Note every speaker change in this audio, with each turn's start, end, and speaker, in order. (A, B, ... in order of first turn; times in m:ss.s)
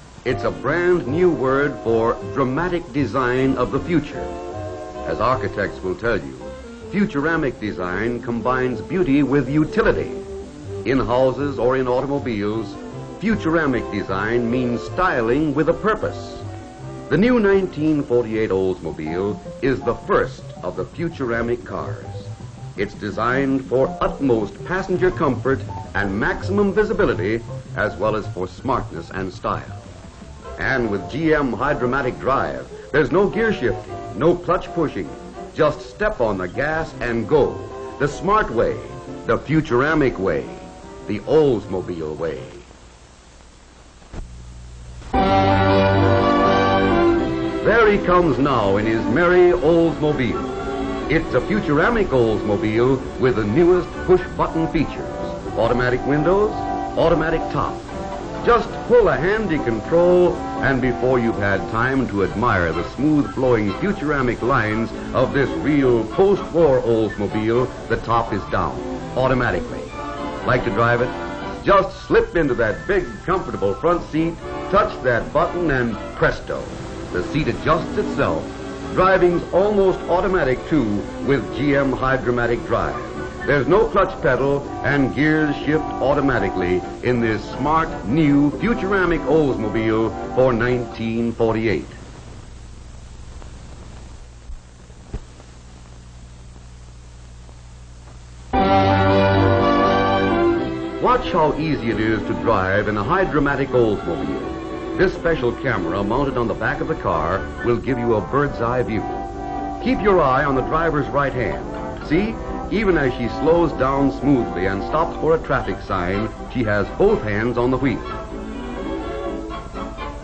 0:00.2-0:04.3 A
0:05.0-0:10.2 A
0:10.8-0:16.4 A
0:17.1-0:29.8 A
0:30.6-0:42.6 A
0:47.6-0:50.6 A
0:51.1-0:57.8 A
0:58.4-1:32.0 A
1:41.0-1:49.3 A
1:49.8-1:58.2 A